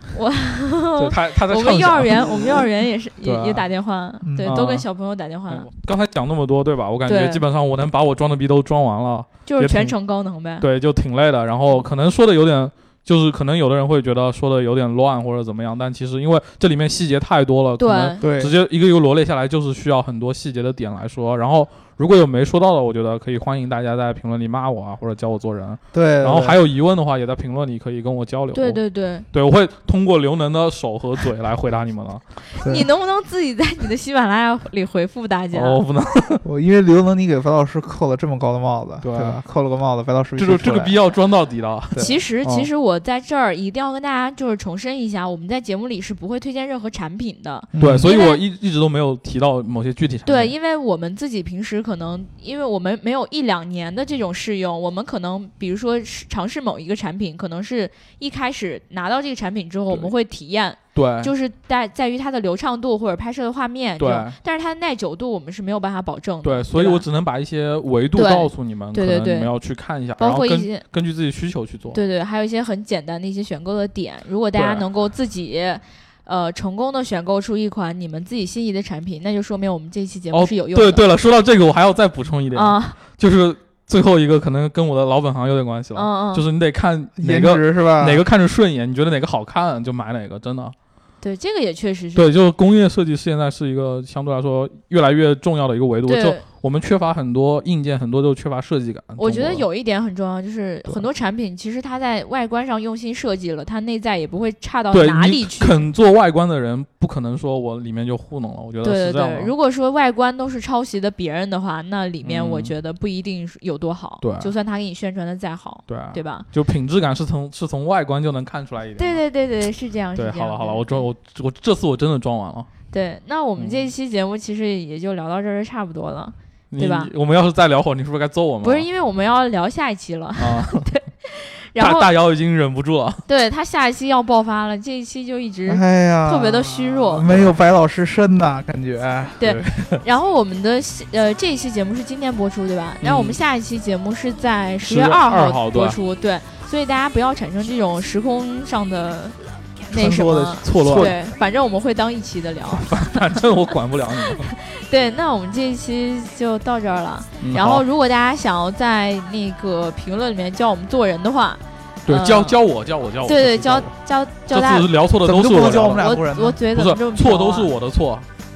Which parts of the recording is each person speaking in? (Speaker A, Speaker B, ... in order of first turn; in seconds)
Speaker A: 0.1-5.7, 7.0-7.4, 9.4-10.7, 17.8-18.2, 28.5-29.2, 32.5-35.8, 42.0-48.4, 50.2-67.0, 68.1-69.5, 70.2-70.8, 71.9-81.0, 82.5-83.0, 85.9-86.4, 91.2-92.3, 96.0-96.4, 99.2-105.8, 108.8-116.5, 119.0-121.1, 122.9-127.1, 128.6-132.1, 133.3-137.2, 139.4-149.3, 149.9-153.4, 154.2-162.6, 163.2-164.9, 165.8-167.7
Speaker B: 1.0-2.7, 3.2-3.7, 4.5-4.9, 5.5-9.9, 10.6-28.8, 29.3-32.2, 35.5-36.4, 39.0-39.4, 40.4-42.7, 47.8-50.5, 60.9-61.3, 64.0-64.4, 66.4-72.0, 74.5-74.9, 80.3-90.7, 92.1-99.7, 104.9-109.5, 112.2-112.7, 114.2-114.5, 115.9-119.2, 120.2-122.7, 123.6-123.9, 126.7-128.9, 130.4-130.9, 131.8-133.2, 137.2-137.5, 139.4-140.0, 143.0-143.4, 144.8-146.0, 149.9-151.2, 152.7-154.5, 157.4-157.8, 162.1-163.9, 164.5-166.1, 166.7-168.3
Speaker C: 4.2-4.6, 18.2-18.5, 25.9-26.6, 32.6-32.9, 36.4-40.9, 41.9-42.2, 47.7-48.1, 87.2-88.2, 135.7-139.4, 165.2-166.6